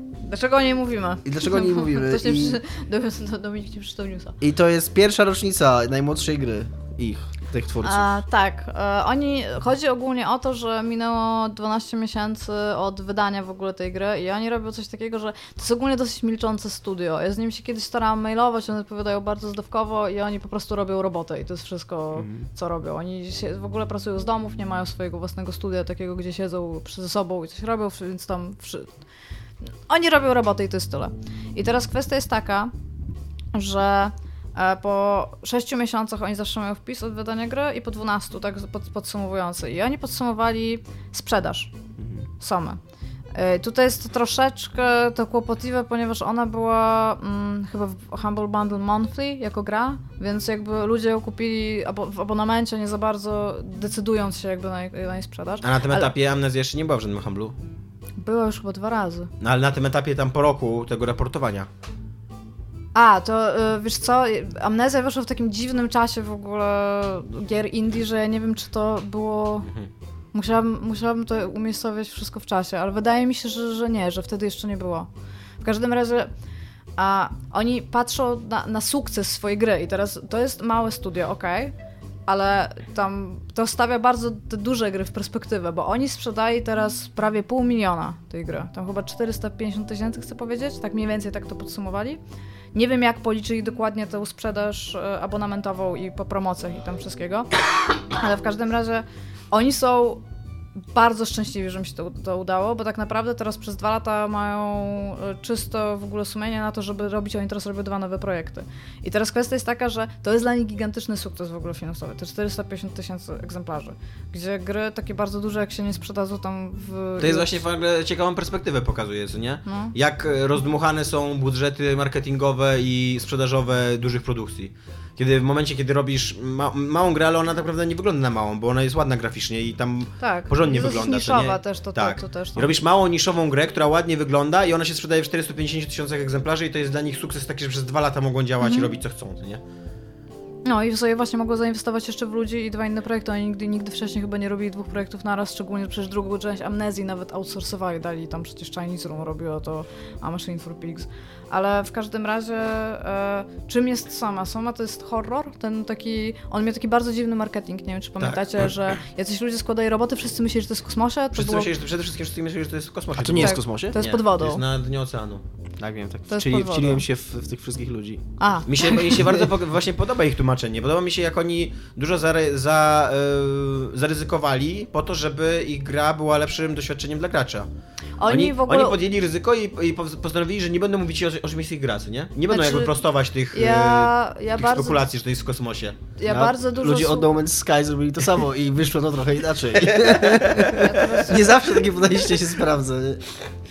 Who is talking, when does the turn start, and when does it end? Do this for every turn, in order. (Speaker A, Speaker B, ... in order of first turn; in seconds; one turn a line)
Speaker A: 0.2-4.4
Speaker B: 1.2-2.6
Speaker B: 4.4-8.2
Speaker A: 7.8-28.9
Speaker B: 22.1-22.5
Speaker A: 29.9-32.7
Speaker A: 33.5-41.7
Speaker B: 42.0-42.3
Speaker A: 42.4-42.8
Speaker A: 43.3-56.1
Speaker C: 55.6-57.5
Speaker A: 58.2-59.3
Speaker C: 59.4-61.7
Speaker A: 63.0-69.7
Speaker A: 70.3-75.1
Speaker A: 75.6-76.3
Speaker A: 77.0-81.7
Speaker A: 82.3-92.2
Speaker A: 92.7-97.5
Speaker A: 98.2-100.2
Speaker A: 100.9-117.5
Speaker C: 117.2-139.6
Speaker A: 119.7-119.9
Speaker A: 130.2-132.7
Speaker A: 138.6-138.9
Speaker A: 140.7-161.7
Speaker C: 158.2-159.0
Speaker C: 161.3-165.4
Speaker B: 163.2-164.0
Speaker A: 163.4-164.6
Speaker B: 165.8-168.2
Speaker A: 166.3-167.0
Speaker A: 168.4-169.2
Speaker C: 168.7-177.7
Speaker A: 178.2-179.0
Speaker C: 178.3-186.0
Speaker A: 182.5-182.9
Speaker A: 183.5-185.0
Speaker A: 186.2-187.3
Speaker B: 186.3-193.2
Speaker C: 189.8-190.9
Speaker A: 190.6-191.4